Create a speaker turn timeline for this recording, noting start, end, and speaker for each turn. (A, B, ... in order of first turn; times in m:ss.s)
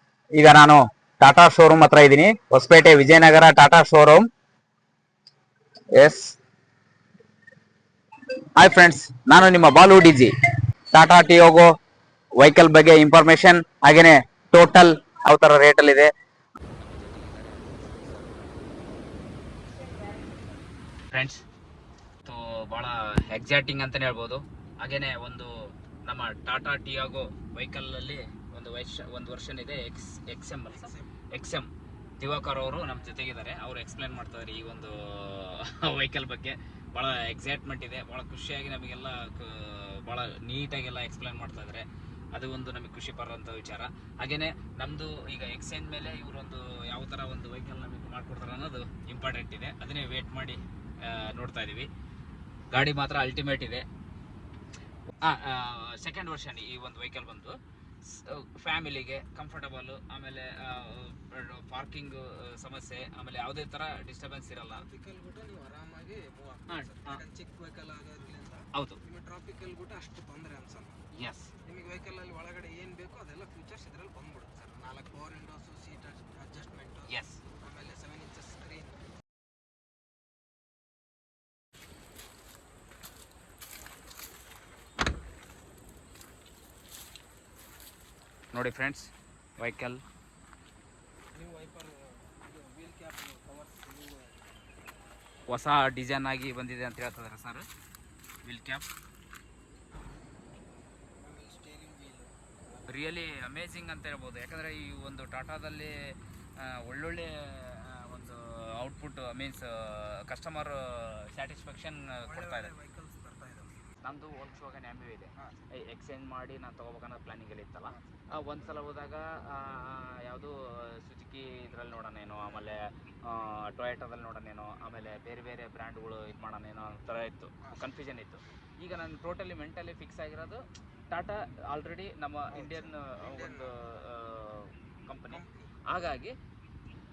0:00.4-0:04.2 A
0:06.0-0:06.2 A
0:08.6-0:10.3 A
0:10.9-0:11.7 A
0:12.4-0:16.1 A
0:16.8-0:18.7 A
0:21.1-0:21.4 A
0:22.2-0:25.5 A
0:26.0-0:51.9 A
0:30.7-0:31.1 B
0:52.7-0:53.8 A
0:55.2-1:04.8 A
1:04.7-1:11.0 B
1:06.7-1:07.2 A
1:08.7-1:09.0 A
1:11.1-1:11.5 A
1:11.7-1:19.0 B
1:17.1-1:17.4 A
1:28.5-1:30.0 A
1:31.3-1:34.6 B
1:35.5-1:37.7 A
1:38.4-1:38.8 A
1:40.1-1:40.4 B
1:41.2-1:43.0 B
1:42.9-1:45.9 A
1:46.6-1:52.7 A
1:52.2-1:53.7 B
1:54.0-2:16.3 A
1:55.4-1:55.7 B
1:57.9-1:58.7 B
2:12.5-2:13.7 B
2:15.3-2:15.7 B